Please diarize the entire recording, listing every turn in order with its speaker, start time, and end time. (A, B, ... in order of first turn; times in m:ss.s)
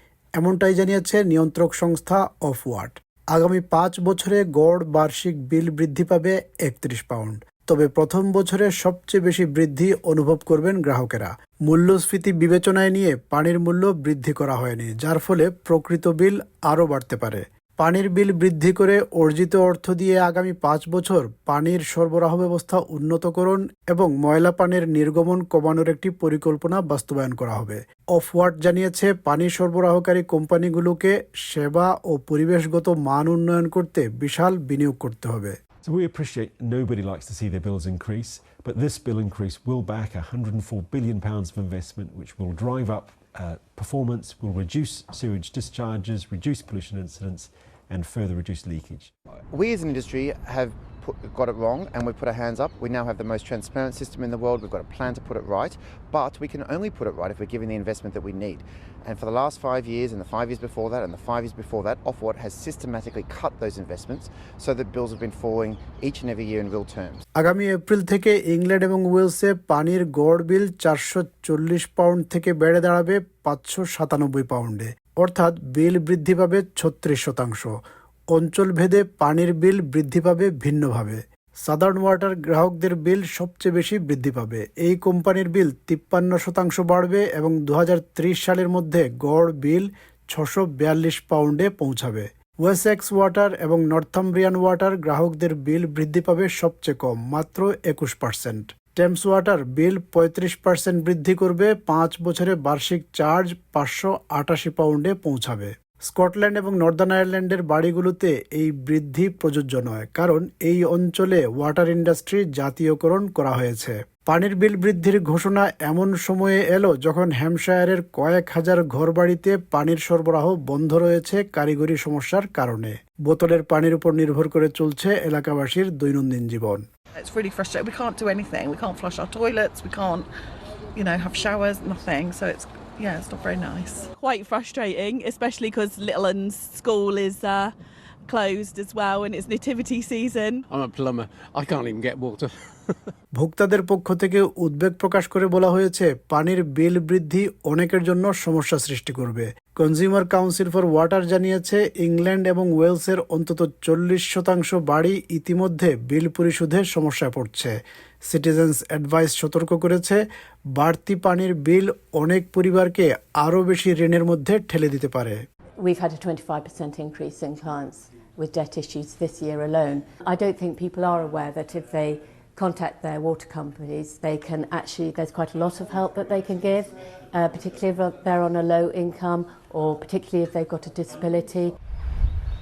0:00.4-0:35.6 A
0:35.8-0:49.1 B
0:49.5-1:07.2 C
1:07.4-1:17.7 A
1:18.3-2:06.8 A
2:07.1-2:10.3 D
2:10.9-2:14.1 D
2:14.2-2:17.7 E
2:18.3-2:20.6 E
2:20.7-2:23.0 F
2:23.4-2:37.7 A
2:38.3-2:40.2 A
2:40.8-2:45.4 A
2:45.8-3:01.7 G